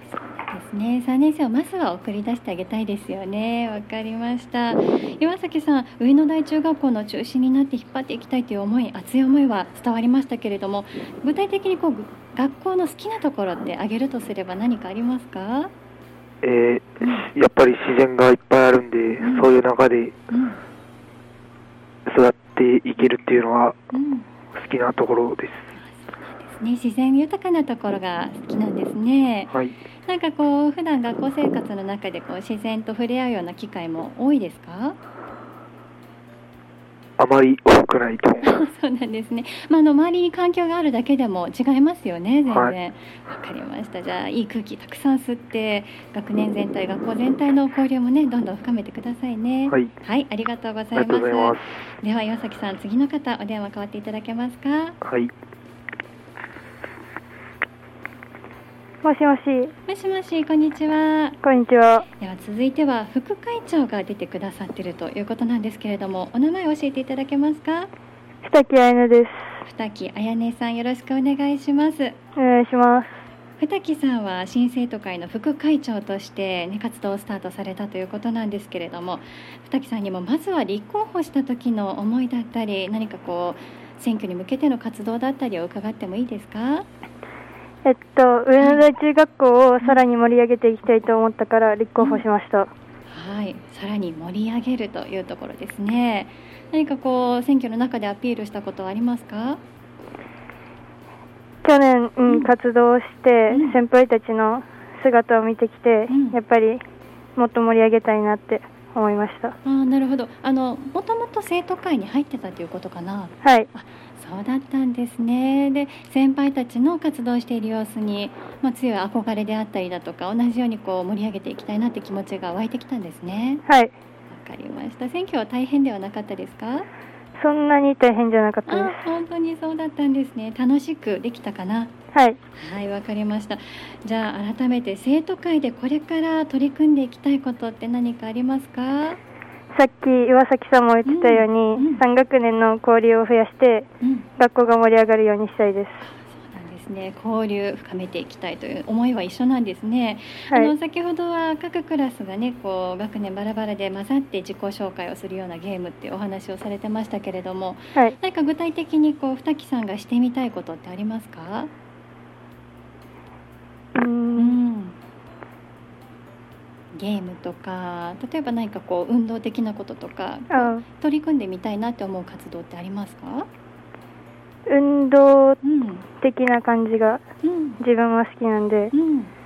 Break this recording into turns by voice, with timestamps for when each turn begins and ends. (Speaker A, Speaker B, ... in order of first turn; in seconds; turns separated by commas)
Speaker A: 0.4-15.7, Speaker B: 16.4-20.1, Speaker A: 17.0-17.2, Speaker A: 19.2-19.5, Speaker A: 20.3-20.6, Speaker B: 22.1-23.8, Speaker A: 23.9-24.3, Speaker B: 24.5-25.7, Speaker A: 25.7-29.5, Speaker A: 30.1-35.0, Speaker B: 37.2-38.6, Speaker A: 38.4-55.0, Speaker B: 50.9-51.8, Speaker B: 55.0-55.3, Speaker C: 59.0-59.7, Speaker A: 59.9-61.4, Speaker C: 61.4-62.0, Speaker A: 62.1-67.9, Speaker C: 68.4-69.5, Speaker A: 69.6-72.2, Speaker C: 72.3-73.1, Speaker A: 73.6-86.9, Speaker C: 87.8-92.7, Speaker A: 88.6-88.8, Speaker A: 92.0-92.2, Speaker A: 93.1-99.6, Speaker C: 101.6-106.8, Speaker A: 103.5-103.8, Speaker A: 106.1-106.4, Speaker C: 107.4-109.5, Speaker A: 109.6-123.6, Speaker C: 113.4-113.7, Speaker C: 123.7-123.9, Speaker A: 124.3-126.9, Speaker C: 127.4-129.0, Speaker A: 128.7-131.9, Speaker C: 132.1-132.4, Speaker A: 132.5-139.2, Speaker C: 139.7-143.9, Speaker A: 141.0-142.0, Speaker A: 144.0-144.3, Speaker C: 144.4-146.0, Speaker A: 146.0-161.7, Speaker C: 163.9-164.6, Speaker A: 164.3-164.9, Speaker A: 166.9-173.5, Speaker C: 170.5-170.8, Speaker C: 174.7-175.6, Speaker A: 175.6-176.1, Speaker C: 176.2-177.2, Speaker A: 177.4-177.8, Speaker C: 177.8-178.9, Speaker A: 178.9-179.3